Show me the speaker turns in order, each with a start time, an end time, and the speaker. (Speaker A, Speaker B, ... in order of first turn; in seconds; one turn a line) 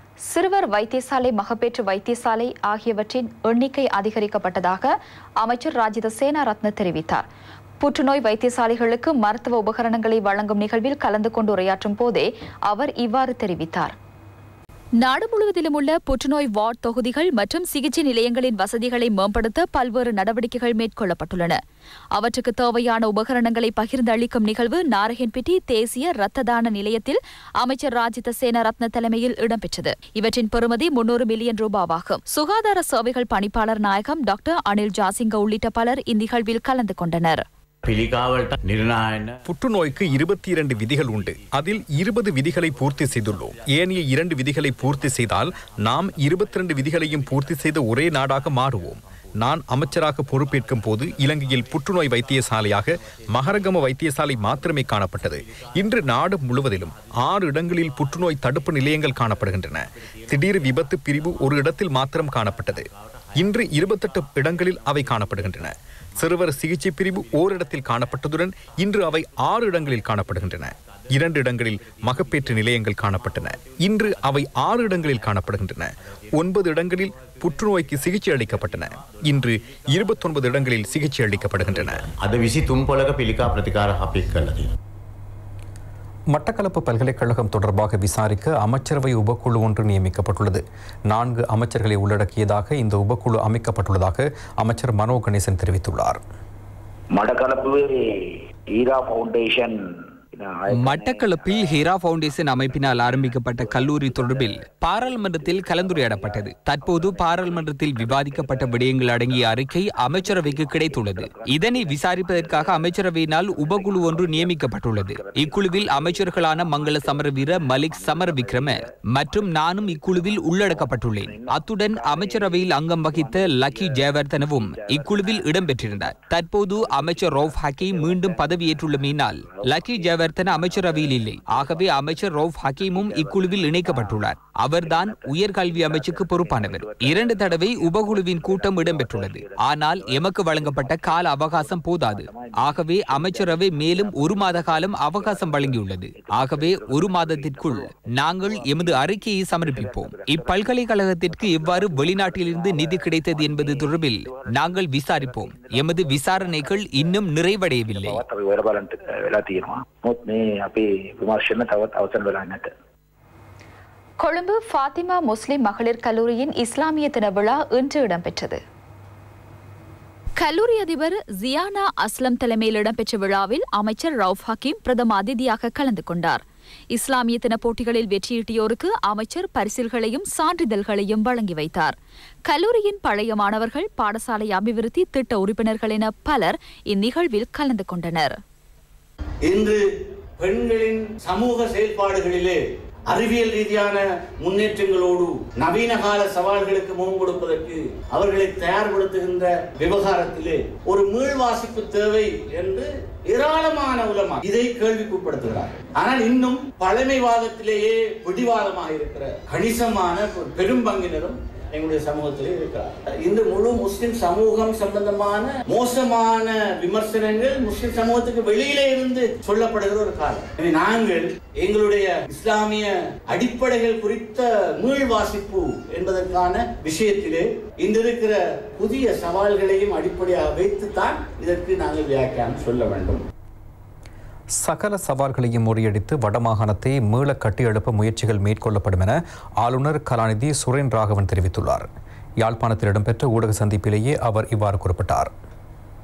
Speaker A: 0.2-7.2
Speaker A: 7.8-13.9
Speaker A: 15.0-21.6
Speaker A: 22.1-37.4
Speaker B: 37.8-39.4
Speaker C: 39.4-62.9
Speaker C: 63.4-82.1
Speaker B: 82.2-84.7
Speaker C: 86.3-96.2
Speaker D: 97.2-97.9
Speaker D: 98.7-99.7
Speaker D: 100.3-101.8
Speaker E: 100.7-158.2
Speaker D: 102.5-162.7
Speaker A: 164.2-168.6
Speaker A: 170.4-181.9
Speaker A: 182.5-188.3
Speaker F: 189.4-189.8
Speaker F: 190.4-233.2
Speaker C: 234.6-241.9
Speaker C: 242.4-245.3